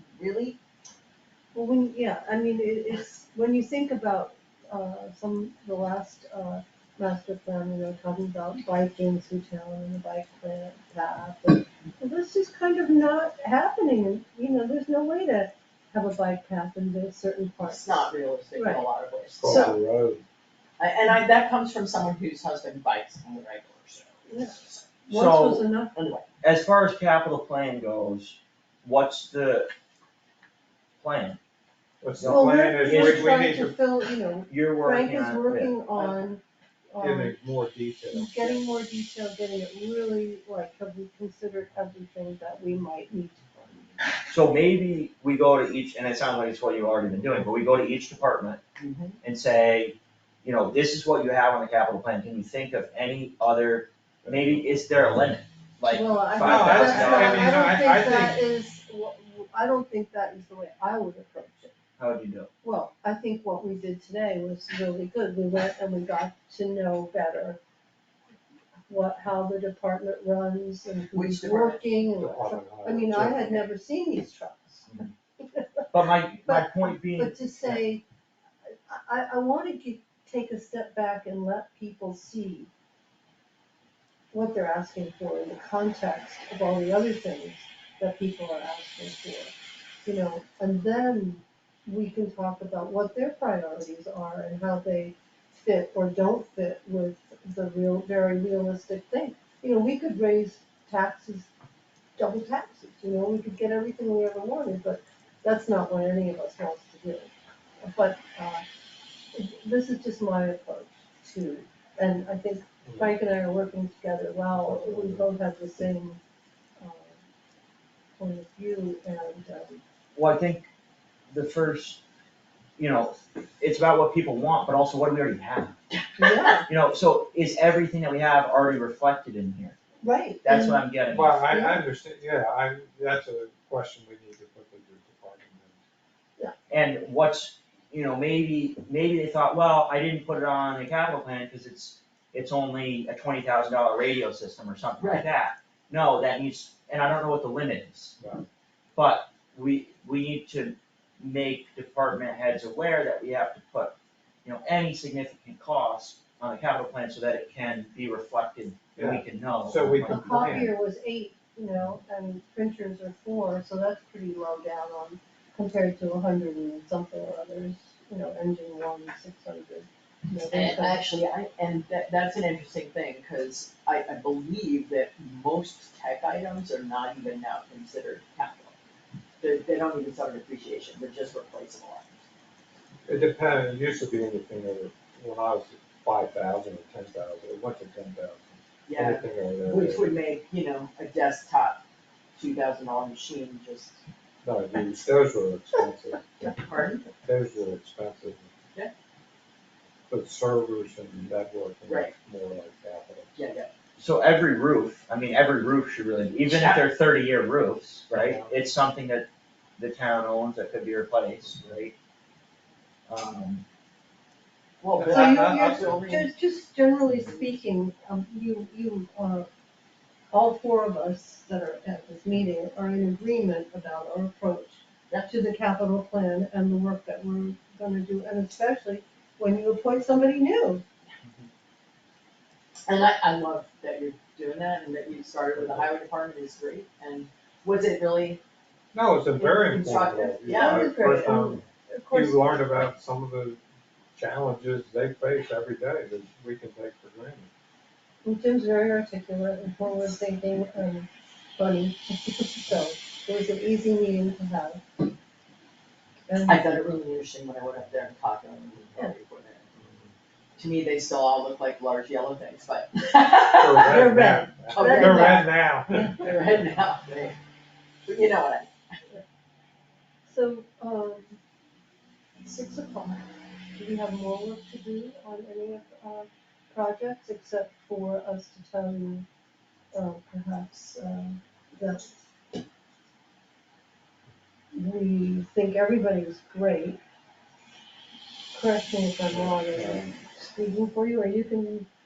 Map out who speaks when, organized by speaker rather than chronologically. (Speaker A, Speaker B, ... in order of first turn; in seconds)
Speaker A: 0.2-0.6, 17.6-19.8, 20.8-25.0, 25.9-26.3, 48.8-49.2, 71.1-71.8, 145.0-145.3, 170.5-178.8, 179.4-182.2, 188.9-191.8, 192.4-194.0, 196.6-197.0, 201.9-202.1, 203.3-203.7, 206.5-206.9, 214.8-216.3, 232.9-238.4, 239.7-241.1, 256.5-259.7, 260.6-264.1, 264.7-265.5, 266.1-267.4, 268.1-268.7
Speaker B: 1.5-18.9, 19.4-19.7, 24.3-24.6, 25.1-26.0, 32.2-37.4, 38.1-44.0, 55.9-61.7, 62.6-67.6, 68.9-74.9, 75.4-75.8, 76.4-78.0, 78.9-82.7, 84.3-101.5, 102.2-108.6, 109.3-116.2, 116.8-117.2, 118.2-119.8, 126.2-126.7, 130.0-130.8, 131.5-131.8, 160.1-171.0, 215.1-219.5, 220.3-230.8, 239.4-239.8, 240.5-242.5, 248.2-254.8, 256.3-256.6, 263.9-266.1, 270.3-271.4, 272.4-279.3, 279.9-282.1, 284.7-287.0, 288.5-291.9
Speaker C: 19.4-20.2, 32.0-33.8, 37.0-38.6, 54.3-54.6, 56.4-58.4, 72.2-73.7, 112.8-113.1, 114.5-115.2, 131.1-135.8, 148.2-148.4, 159.0-160.7, 183.1-190.1, 194.4-196.3, 197.2-198.5, 200.1-203.3, 208.1-208.5, 215.0-216.2, 235.6-235.8, 238.9-243.6, 244.2-247.5, 263.6-266.2, 289.3-290.1
Speaker D: 25.1-25.6, 26.4-29.7, 31.0-31.4, 32.2-33.3, 34.5-35.7, 44.3-48.6, 49.2-57.4, 62.0-62.5, 75.9-77.8, 120.2-120.7, 121.3-122.0, 122.8-125.8, 126.7-129.8, 130.4-131.4, 136.7-148.2, 149.0-160.6, 204.0-209.3, 209.8-211.9, 213.1-213.6